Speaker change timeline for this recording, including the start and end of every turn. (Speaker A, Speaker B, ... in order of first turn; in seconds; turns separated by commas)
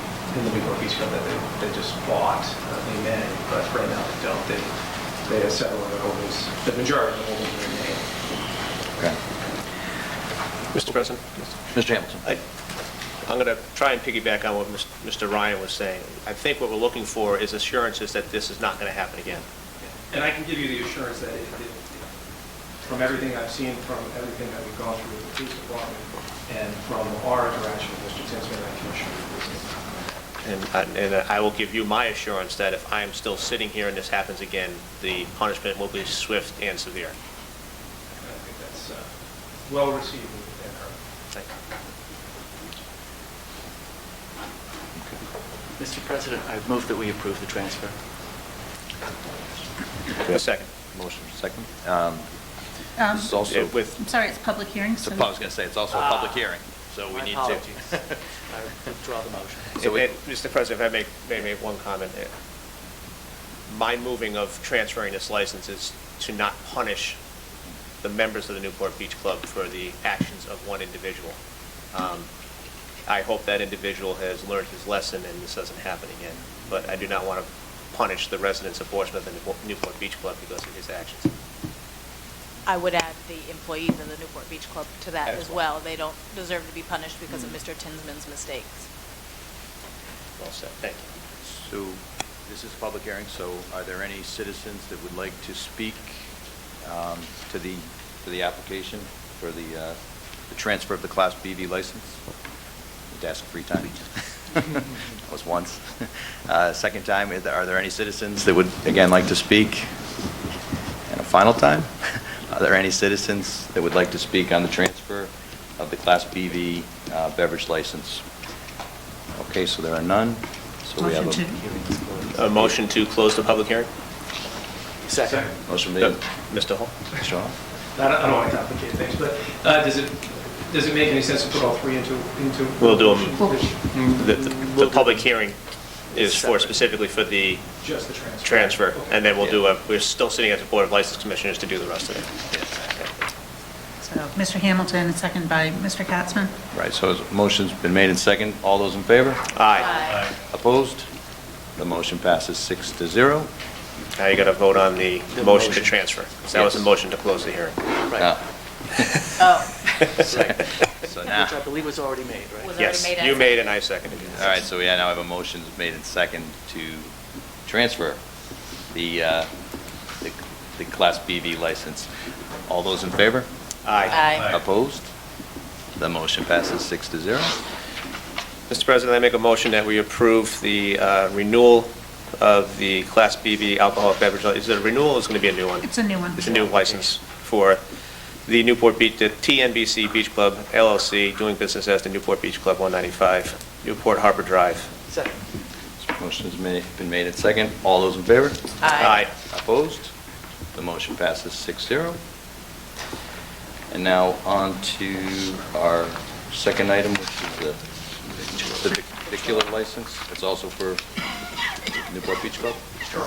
Speaker A: 0.3-8.1, Speaker B: 10.7-11.6, Speaker C: 11.7-12.2, Speaker B: 13.2-19.4, Speaker A: 19.8-22.1, Speaker A: 22.8-29.9, Speaker B: 30.4-37.1, Speaker A: 38.1-41.0, Speaker D: 45.8-48.0, Speaker B: 50.2-50.7, Speaker C: 50.9-52.3, Speaker E: 53.0-55.3, Speaker C: 53.1-53.8, Speaker B: 53.5-53.9, Speaker C: 55.0-58.0, Speaker D: 55.9-56.5, Speaker D: 57.1-59.8, Speaker B: 59.8-62.3, Speaker C: 59.8-60.1, Speaker B: 63.7-67.2, Speaker B: 68.0-71.3, Speaker B: 71.9-72.3, Speaker B: 73.1-81.3, Speaker F: 82.7-88.8, Speaker B: 85.2-85.7, Speaker B: 90.4-91.1, Speaker C: 91.4-96.2, Speaker C: 96.8-102.2, Speaker C: 103.1-109.9, Speaker C: 111.1-118.2, Speaker C: 119.3-121.4, Speaker E: 121.0-121.6, Speaker D: 121.5-122.6, Speaker B: 122.3-123.9, Speaker D: 125.0-125.5, Speaker A: 125.2-125.5, Speaker C: 125.6-126.2, Speaker B: 126.0-127.0, Speaker C: 127.1-127.5, Speaker A: 127.9-134.2, Speaker B: 132.8-137.7, Speaker D: 134.4-135.2, Speaker D: 136.1-136.9, Speaker A: 137.8-139.2, Speaker B: 138.4-143.2, Speaker E: 144.0-146.5, Speaker C: 146.7-149.4, Speaker B: 149.5-150.1, Speaker F: 149.7-150.2, Speaker C: 150.4-151.1, Speaker C: 151.8-153.5, Speaker B: 154.2-157.8, Speaker D: 155.3-156.2, Speaker C: 156.5-156.8, Speaker C: 158.2-158.4, Speaker B: 158.9-160.3, Speaker F: 159.4-159.8, Speaker D: 160.2-162.8, Speaker C: 160.2-161.6, Speaker F: 162.6-163.8, Speaker B: 162.8-164.6, Speaker C: 164.3-167.1, Speaker C: 167.7-168.2, Speaker C: 168.9-169.5, Speaker C: 170.2-172.1, Speaker C: 172.7-173.5, Speaker B: 173.8-174.3, Speaker F: 174.1-174.5, Speaker C: 174.1-175.1, Speaker C: 176.0-177.6, Speaker B: 178.7-187.8, Speaker E: 185.8-186.6, Speaker B: 188.4-194.9, Speaker C: 196.0-200.1, Speaker F: 198.8-199.2, Speaker B: 198.9-199.3, Speaker C: 200.7-202.2, Speaker C: 203.9-207.8, Speaker C: 208.5-211.0, Speaker C: 212.1-212.8